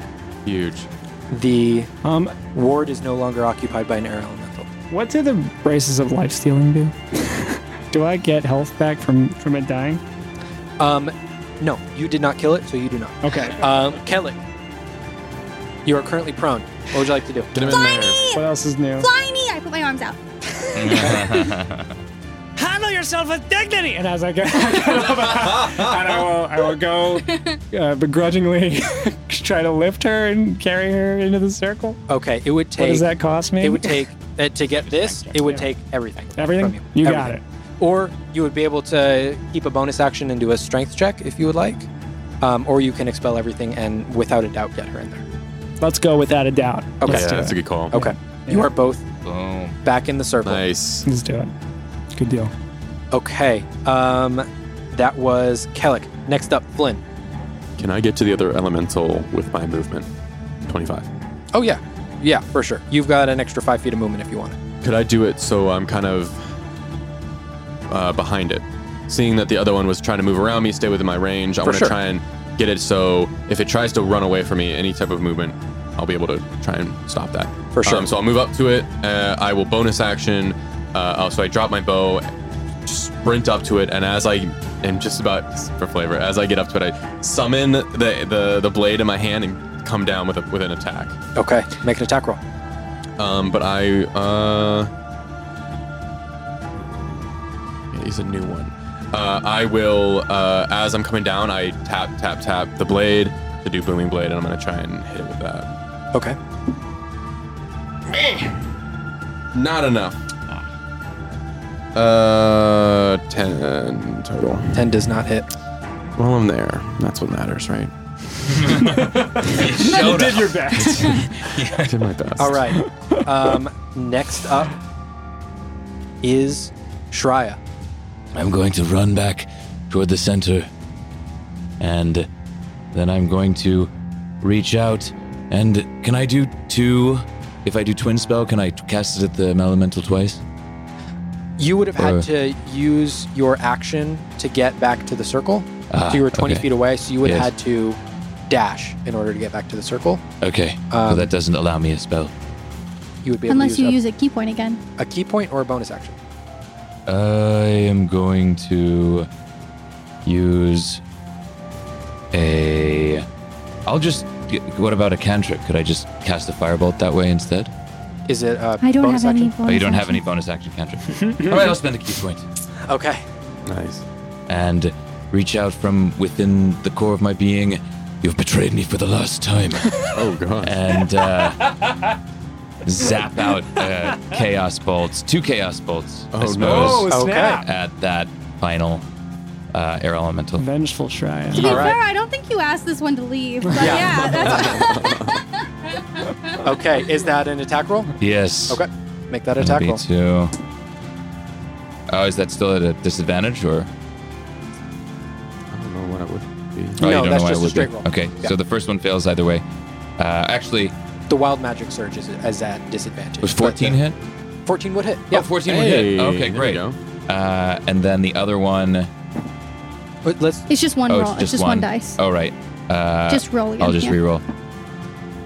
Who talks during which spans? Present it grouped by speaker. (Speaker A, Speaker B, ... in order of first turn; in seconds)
Speaker A: 0.4-0.9, 17.5-18.2, 24.8-26.3, 47.0-47.9, 50.4-51.1, 57.8-60.1, 60.6-61.1, 64.8-66.5, 67.9-82.3, 82.8-91.2, 93.2-94.9, 97.9-105.7, 109.5-110.2, 111.9-114.9, 116.2-118.6, 119.6-120.0, 120.8-122.6, 173.7-174.0, 180.1-180.7, 186.3-187.1, 191.5-191.9, 194.4-195.4, 205.7-207.1, 215.6-217.0
Speaker B: 1.3-1.9, 2.5-4.7, 10.8-14.4, 15.8-17.7, 21.0-21.3, 32.1-41.9, 42.4-45.2, 47.0-49.0, 49.8-50.6, 53.1-57.0, 61.5-64.6, 71.6-71.9, 77.7-78.1, 91.3-92.4, 114.7-115.5, 122.4-124.8, 126.2-127.6, 141.6-150.2, 150.9-151.3, 153.2-154.0, 155.0-156.2, 168.3-169.5, 172.8-173.2, 187.1-187.6, 191.6-192.0, 193.7-194.9, 196.6-198.1, 198.7-200.0, 207.0-208.5, 211.3-214.0, 214.7-215.5, 220.2-220.7
Speaker C: 2.0-2.4, 4.9-10.0, 13.2-13.9, 18.3-19.1, 20.7-21.4, 22.6-32.0, 32.8-34.1, 36.4-37.4, 45.8-48.7, 51.0-51.5, 52.1-52.5, 118.8-121.2, 122.7-123.2, 171.2-171.8, 181.4-182.0, 186.6-187.7, 190.6-191.7
Speaker D: 17.6-18.4, 19.0-20.2, 27.3-27.6, 153.5-154.8, 168.8-170.2, 191.5-196.6, 220.7-222.2, 223.3-224.2
Speaker E: 20.8-21.9, 34.9-35.4, 49.2-49.8, 118.5-121.9, 128.3-130.7, 131.8-132.3, 132.9-140.4, 142.0-142.2, 145.9-146.7, 147.2-147.5, 150.4-152.3, 157.1-159.3, 160.2-161.0, 162.3-163.2, 163.8-167.7, 169.6-172.4, 174.5-180.1, 180.6-181.7, 182.8-189.0, 189.7-190.6, 198.2-198.8, 199.5-200.5, 202.1-203.9, 207.0-209.6, 210.2-210.9, 213.4-214.2, 215.3-219.1, 221.1-224.4